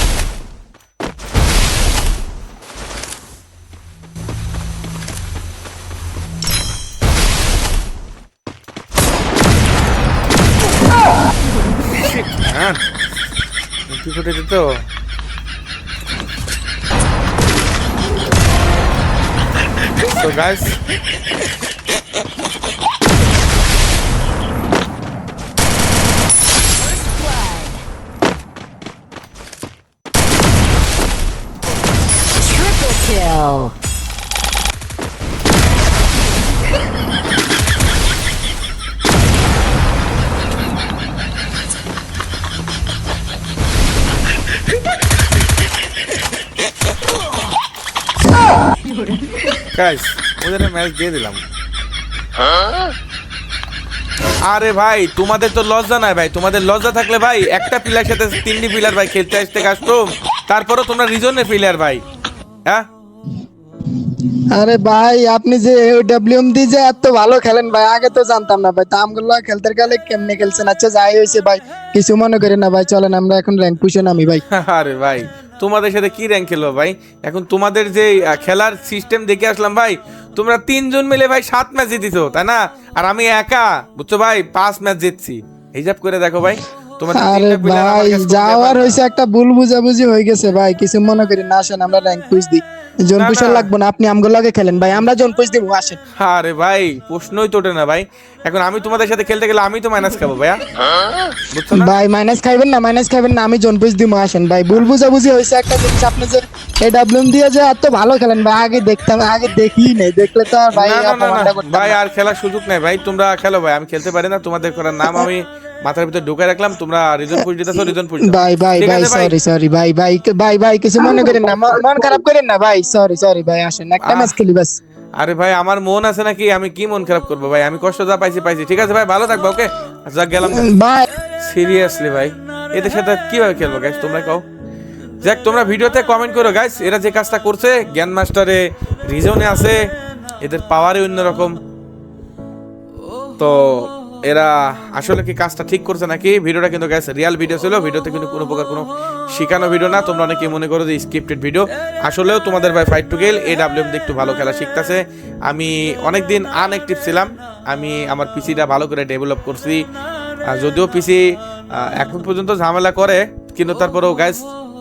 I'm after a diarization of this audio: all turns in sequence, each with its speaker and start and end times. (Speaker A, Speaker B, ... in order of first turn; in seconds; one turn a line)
Speaker A: 11.8-12.8
Speaker A: 13.9-14.8
Speaker A: 20.1-20.8
Speaker B: 26.8-27.8
Speaker B: 32.4-33.7
Speaker A: 49.7-51.4
Speaker A: 54.5-62.0
Speaker C: 64.5-74.4
Speaker A: 74.5-89.0
Speaker C: 87.1-96.0
Speaker A: 93.2-93.7
Speaker A: 96.2-100.6
Speaker A: 101.5-101.9
Speaker C: 101.7-112.0
Speaker A: 110.7-119.3
Speaker C: 118.2-124.8
Speaker A: 124.0-124.3
Speaker A: 125.2-130.7
Speaker C: 130.5-131.1
Speaker A: 131.4-134.4
Speaker A: 135.2-139.8
Speaker A: 140.4-141.6
Speaker A: 143.4-159.8
Speaker A: 160.5-161.2
Speaker A: 162.0-164.4